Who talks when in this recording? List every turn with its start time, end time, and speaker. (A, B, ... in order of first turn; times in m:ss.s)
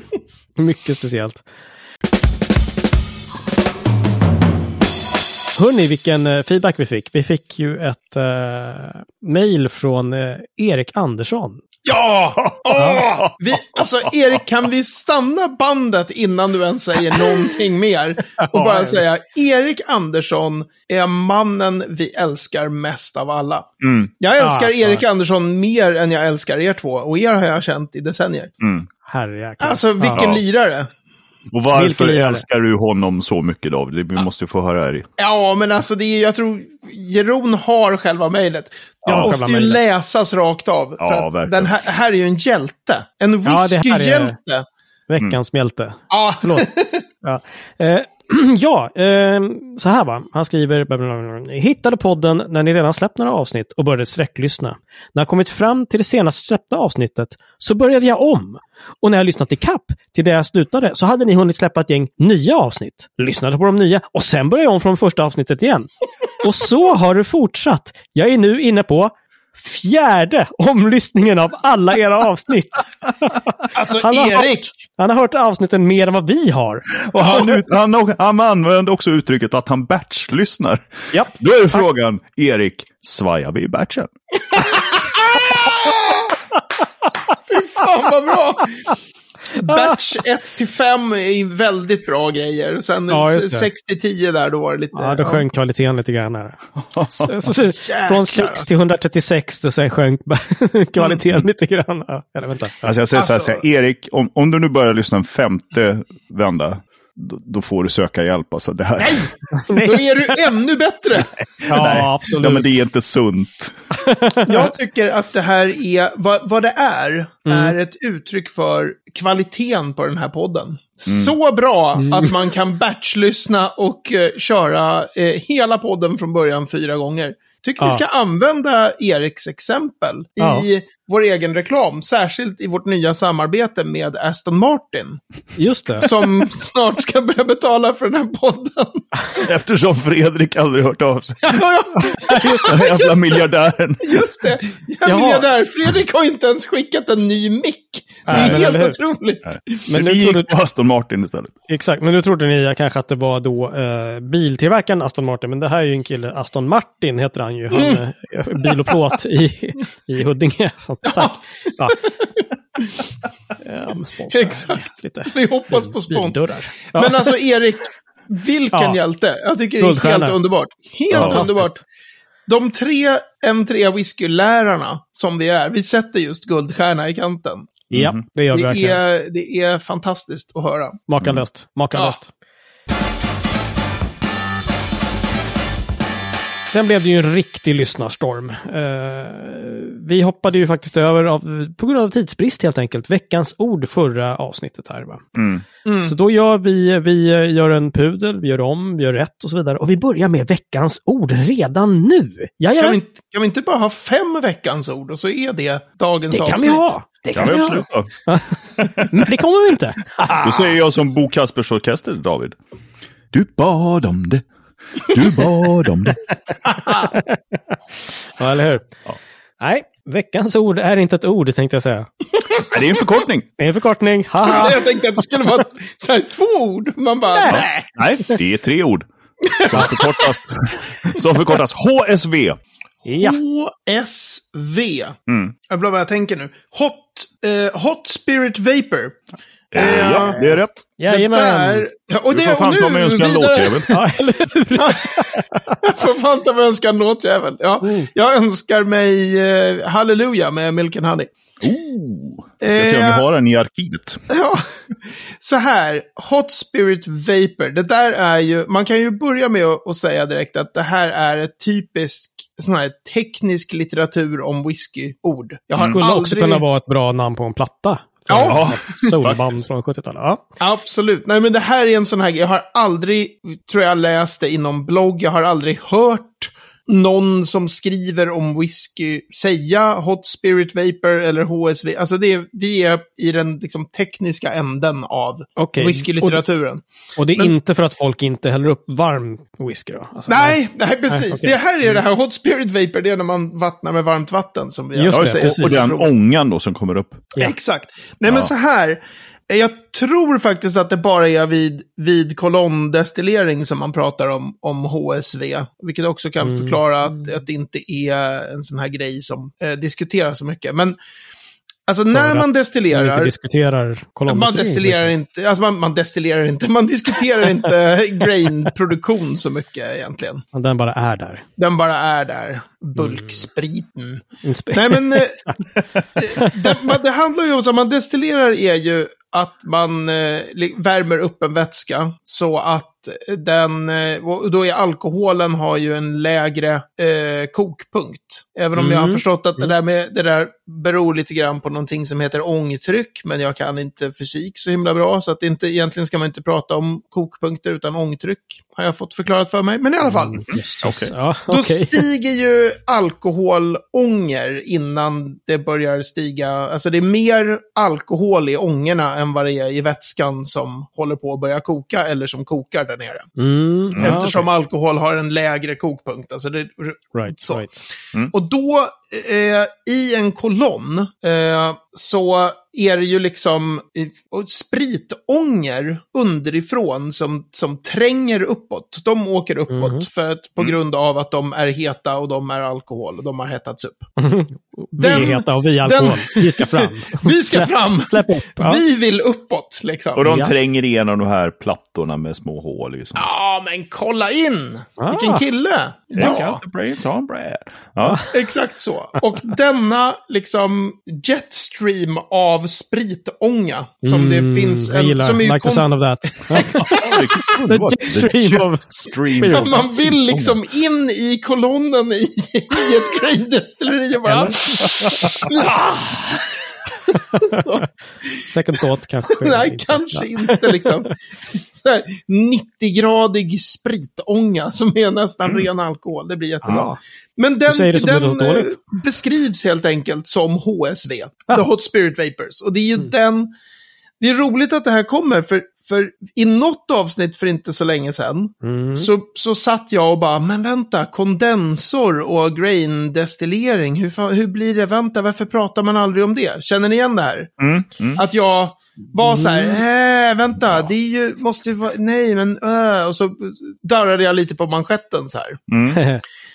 0:00.6-0:01.5 A
0:05.6-0:11.6 A
0:11.8-0:23.7 B
0:12.7-0:13.0 A
0:13.3-0:14.1 C
0:17.1-0:17.5 A
0:18.4-0:19.0 A
0:23.8-0:24.1 C
0:24.2-0:28.5 B
0:24.4-0:25.0 A
0:28.6-0:28.9 C
0:29.1-0:30.2 A
0:29.6-0:30.9 B
0:30.1-0:30.4 C
0:31.5-0:35.1 C
0:31.8-0:32.4 A
0:35.2-0:44.7 B
0:39.0-0:39.3 C
0:39.1-0:39.8 A
0:41.0-0:41.7 C
0:43.4-0:44.4 A
0:45.1-0:46.7 A
0:46.1-0:47.1 B
0:47.2-1:17.0 A
1:13.7-1:14.7 B
1:17.0-1:24.1 C
1:21.1-1:21.8 A
1:24.5-1:26.4 B
1:27.5-1:29.0 B
1:29.6-1:35.4 B
1:29.6-1:30.0 A
1:33.1-1:33.7 A
1:34.9-1:42.9 A
1:36.8-1:37.5 C
1:37.6-1:38.7 B
1:42.8-1:49.3 C
1:43.1-1:43.6 B
1:49.0-1:51.3 B
1:49.5-1:50.1 A
1:51.4-1:53.8 C
1:51.7-1:52.8 A
1:54.0-1:54.7 A
1:54.5-2:15.2 B
1:57.5-1:57.8 A
2:01.1-2:01.4 C
2:02.0-2:02.3 A
2:10.4-2:10.7 A
2:15.6-2:16.1 A
2:16.0-2:19.4 B
2:19.4-2:21.6 C
2:21.4-2:23.4 B
2:22.1-2:22.9 A
2:22.6-2:24.2 C
2:24.0-2:29.8 B
2:25.0-2:25.5 A
2:28.3-2:29.0 A
2:28.3-2:28.6 C
2:29.5-2:31.6 C
2:29.9-2:30.5 A
2:31.7-2:42.0 A
2:37.7-2:38.0 B
2:41.1-2:41.4 B
2:41.9-2:43.0 B
2:43.6-2:47.3 A
2:44.3-2:51.8 B
2:48.7-2:49.0 A
2:49.8-2:50.4 A
2:51.1-2:51.4 C
2:51.2-2:51.8 A
2:52.5-2:57.8 B
2:57.9-2:58.2 C
2:57.9-2:59.0 A
2:58.5-3:01.0 B
3:01.1-3:02.3 A
3:06.7-3:15.2 A
3:15.4-3:15.6 C
3:15.8-3:16.2 B
3:16.0-3:23.0 A
3:22.8-3:26.9 B
3:26.3-3:30.6 A
3:27.3-3:28.1 C
3:28.8-3:29.1 C
3:30.4-3:32.6 C
3:33.3-3:34.5 C
3:35.0-3:36.2 C
3:36.7-3:37.1 B
3:36.9-3:37.4 A
3:38.3-3:38.9 A
3:39.6-3:42.1 A
3:42.7-3:43.5 C
3:43.6-3:45.4 A
3:44.4-3:47.9 B
3:47.3-3:47.6 A
3:47.5-3:49.1 C
3:49.5-3:50.2 B
3:49.6-3:52.6 C
3:53.1-3:53.4 A
3:53.2-3:59.2 B
3:55.3-3:55.5 C
3:59.7-4:00.5 B
3:59.7-4:00.8 C
3:59.8-4:00.4 A
4:01.0-4:01.9 A
4:01.1-4:04.1 B
4:02.3-4:03.9 C
4:03.9-4:05.8 A
4:04.7-4:11.3 B
4:07.8-4:08.1 A
4:11.6-4:14.2 C
4:12.6-4:13.2 B
4:14.3-4:14.7 B
4:15.4-4:26.6 B
4:25.8-4:30.4 A
4:28.3-4:29.1 B
4:28.4-4:29.5 C
4:30.6-4:46.8 B
4:45.6-4:46.4 A
4:47.2-4:51.6 A
4:50.3-4:56.1 B
4:55.0-4:55.9 A
4:55.1-4:57.4 C
4:57.4-5:11.0 B
5:06.4-5:07.1 A
5:11.9-5:13.3 B
5:12.1-5:15.1 A
5:14.3-5:20.4 B
5:20.5-5:21.4 A
5:21.6-5:25.6 B
5:23.0-5:23.4 A
5:24.4-5:25.3 A
5:26.2-5:50.5 B
5:26.2-5:27.0 A
5:38.8-5:39.7 A
5:50.1-5:52.0 A
5:50.8-5:51.1 C
5:51.5-6:03.3 B
6:03.4-6:04.5 A
6:03.9-6:04.3 C
6:04.0-6:07.7 B
6:07.1-6:07.8 A
6:08.3-6:24.1 B
6:19.7-6:20.1 A
6:24.2-6:28.8 A
6:25.0-6:30.3 B
6:30.2-6:33.2 C
6:30.2-6:30.5 A
6:33.2-6:36.6 B
6:35.0-6:35.4 A
6:36.2-6:38.2 C
6:38.0-6:38.3 A
6:38.3-6:45.9 B
6:44.0-6:47.2 A
6:46.7-6:50.6 C
6:46.8-6:47.2 B
6:47.7-6:49.9 A
6:49.5-7:13.5 B
6:54.2-6:55.5 A
6:57.1-6:57.8 A
6:58.4-7:01.1 A
7:06.6-7:07.0 A
7:07.7-7:08.8 A
7:14.2-7:27.5 B
7:18.6-7:19.1 A
7:27.6-7:28.2 C
7:28.2-7:35.6 B
7:29.2-7:29.8 A
7:35.7-7:36.1 C
7:36.0-7:36.2 A